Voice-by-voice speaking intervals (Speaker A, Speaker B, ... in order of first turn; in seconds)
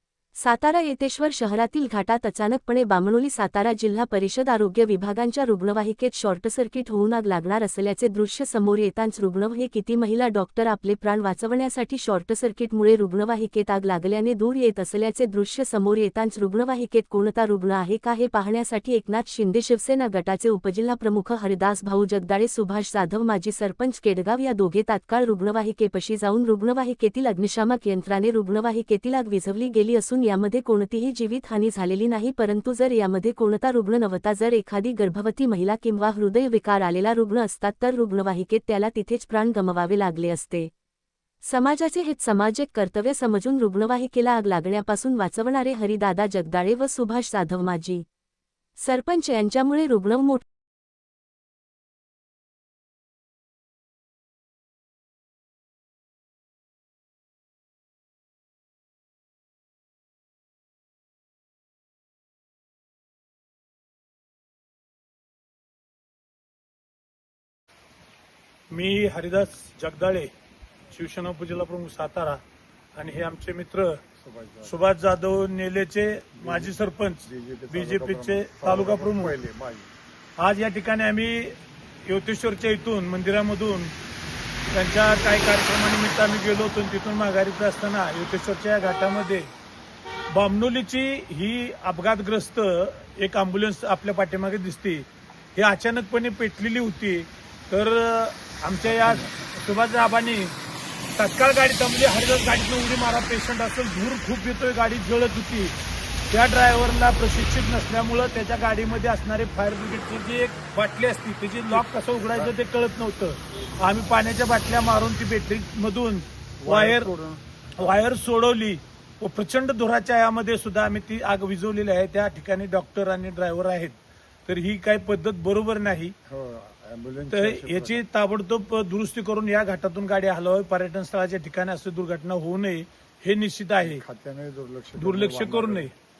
Speaker A: 0.4-40.7, 41.4-48.0, 48.8-50.5
Speaker B: 68.7-70.3, 70.9-72.4, 72.9-74.0, 74.6-79.3, 80.4-83.9, 84.7-89.5, 90.3-100.5, 101.2-105.8, 106.3-117.1, 117.8-124.0, 124.5-126.1, 127.3-134.0, 135.0-135.9
Speaker C: 74.2-74.8, 76.4-79.9, 98.8-99.3, 116.6-117.4, 126.3-128.0, 133.8-135.9